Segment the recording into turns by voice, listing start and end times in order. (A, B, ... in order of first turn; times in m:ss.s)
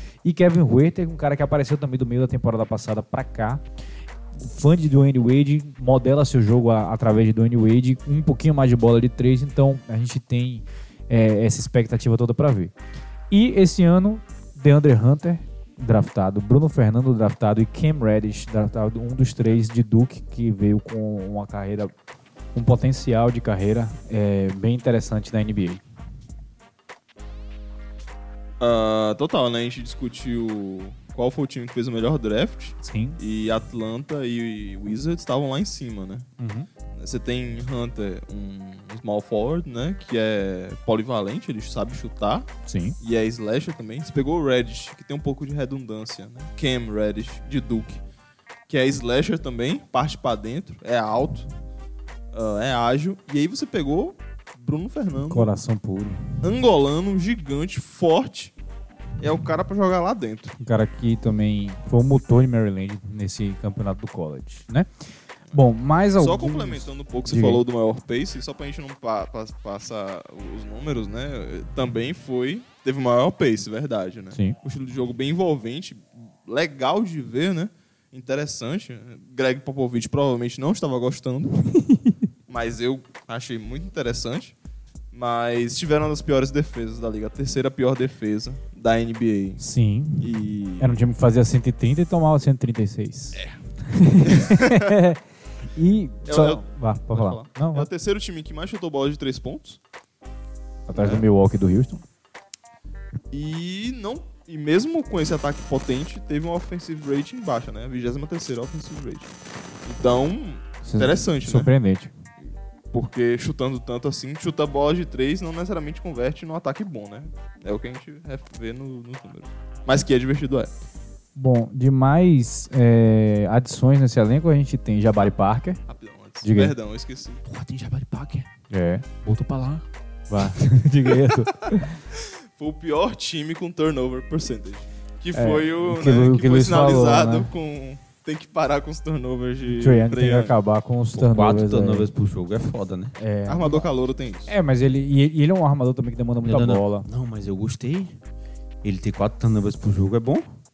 0:00.2-0:03.6 A
0:04.4-0:12.7 A
0:13.3-0:21.9 A
0:22.5-0:25.8 A
0:28.6-0:36.3 B
0:32.8-0:33.2 A
0:36.4-0:36.7 A
0:36.9-0:42.5 B
0:42.6-0:43.0 A
0:43.0-0:48.0 B
0:48.7-0:51.5 B
0:52.3-0:55.5 B
0:55.3-0:56.4 A
0:56.4-0:58.5 B
0:59.2-1:00.6 B
1:00.6-1:04.9 A
1:05.5-1:07.6 A
1:06.2-1:21.6 B
1:21.8-1:22.1 A
1:22.5-1:24.5 B
1:25.1-1:29.6 B
1:29.6-1:35.2 A
1:30.2-1:31.0 B
1:34.2-1:35.0 B
1:35.7-1:37.9 A
1:36.2-1:39.8 B
1:40.9-1:42.0 A
1:43.3-1:49.3 B
1:49.8-1:51.7 B
1:50.8-1:52.1 A
1:52.9-2:00.7 B
2:01.4-2:05.8 A
2:05.9-2:07.4 B
2:06.4-2:06.7 A
2:07.4-2:08.5 C
2:08.7-2:09.1 A
2:09.2-2:09.8 C
2:10.3-2:12.0 A
2:12.1-2:20.6 B
2:15.3-2:17.5 A
2:19.6-2:22.1 A
2:21.1-2:23.1 C
2:23.2-2:23.9 A
2:23.5-2:24.5 B
2:24.5-2:27.1 A
2:26.4-2:28.1 C
2:28.8-2:30.4 C